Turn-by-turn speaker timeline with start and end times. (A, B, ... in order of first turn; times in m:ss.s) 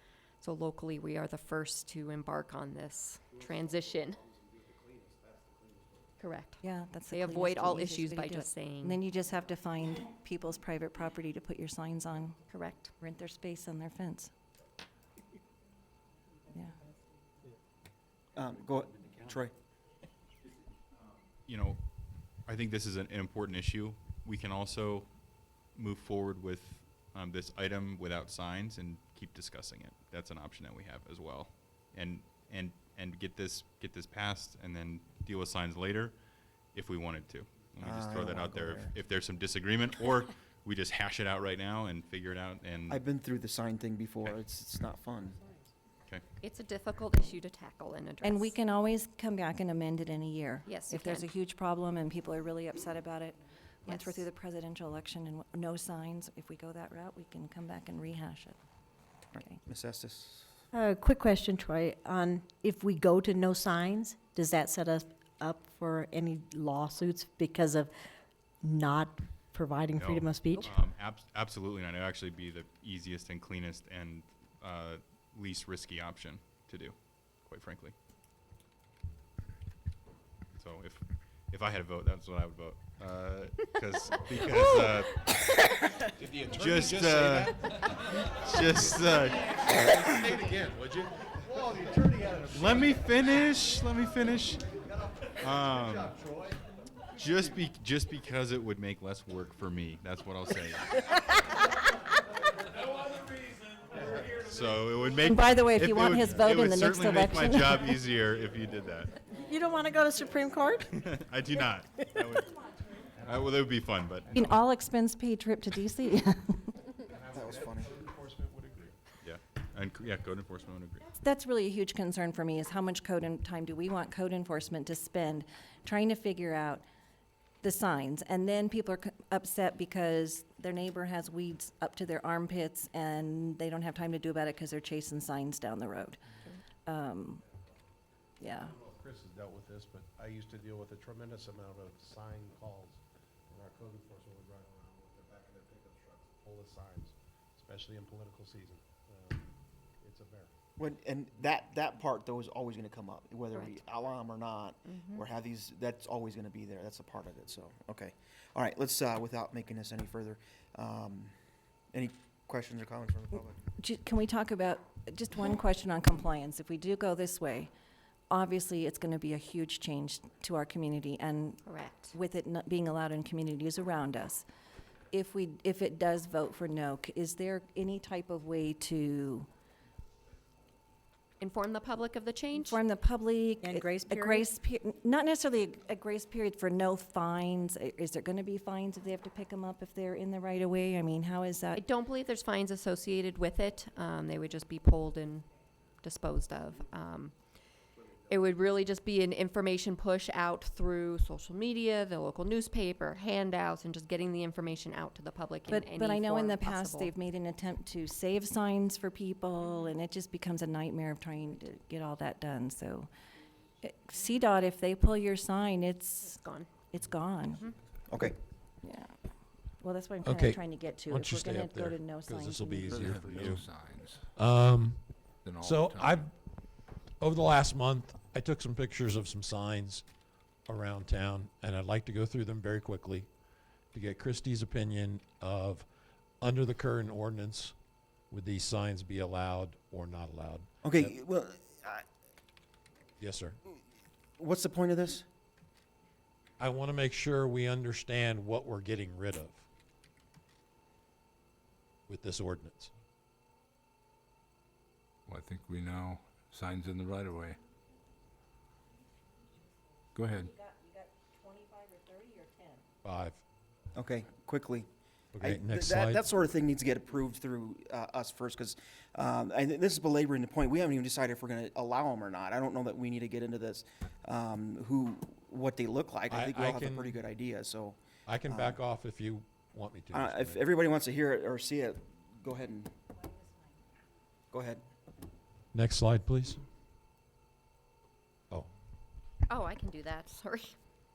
0:00.4-0:04.2 A
0:03.4-0:06.1 B
0:06.2-0:09.0 A
0:06.6-0:12.4 C
0:12.5-0:12.9 A
0:13.0-0:14.3 C
0:18.3-0:19.5 D
0:21.4-0:36.2 E
0:36.7-0:43.0 E
0:37.8-0:38.9 D
0:42.9-0:45.4 D
0:46.4-0:48.5 A
0:48.2-0:58.6 C
0:50.6-0:51.3 A
0:53.9-0:54.2 A
0:59.3-1:00.5 D
1:00.7-1:07.9 F
1:08.6-1:10.7 F
1:09.9-1:17.9 E
1:20.5-1:25.3 E
1:26.2-1:27.9 B
1:26.4-1:30.2 E
1:28.8-1:33.3 B
1:32.5-1:34.7 E
1:34.8-1:36.6 B
1:35.4-1:36.2 E
1:37.1-1:41.0 E
1:43.9-1:44.3 B
1:44.1-1:49.3 E
1:45.2-1:48.0 C
1:49.4-1:50.8 F
1:50.9-1:54.3 E
1:54.3-1:56.8 C
1:57.1-1:59.0 B
1:57.3-1:58.0 D
1:59.2-2:01.0 E
2:01.2-2:06.8 C
2:07.6-2:16.2 C
2:16.8-2:17.4 C
2:18.4-2:18.7 C
2:18.6-2:30.5 B
2:30.8-2:41.3 D
2:34.8-2:35.2 A
2:41.9-2:43.6 D
2:43.8-2:47.7 C
2:48.3-2:54.4 C
2:51.6-2:52.2 A
2:55.1-2:59.5 C
3:01.4-3:02.8 A
3:02.5-3:11.8 C
3:03.7-3:04.4 F
3:11.7-3:15.5 A
3:16.0-3:17.4 A
3:18.3-3:27.1 A
3:25.7-3:33.1 C
3:33.8-3:36.4 C
3:36.2-3:36.7 A
3:36.9-3:37.6 C
3:38.1-3:38.3 D
3:38.8-3:39.1 C
3:39.8-3:43.0 C
3:40.2-3:43.7 G
3:42.9-3:44.3 H
3:44.3-3:46.3 G
3:45.4-3:46.2 H
3:47.2-3:50.0 G
3:50.6-3:53.3 G
3:53.9-3:55.9 G
3:56.4-3:57.7 G
3:58.3-4:01.1 G
4:00.8-4:02.0 D
4:03.2-4:03.6 G
4:04.4-4:05.2 D
4:06.6-4:09.6 G
4:12.1-4:12.9 G
4:15.3-4:17.6 H
4:20.1-4:20.5 H
4:20.7-4:22.6 C
4:23.0-4:23.4 G
4:23.9-4:38.8 D
4:25.3-4:26.2 G
4:36.3-4:37.2 G
4:38.2-4:40.6 G
4:40.1-4:42.9 D
4:44.5-4:44.8 D
4:45.7-4:46.6 G
4:49.5-4:50.7 A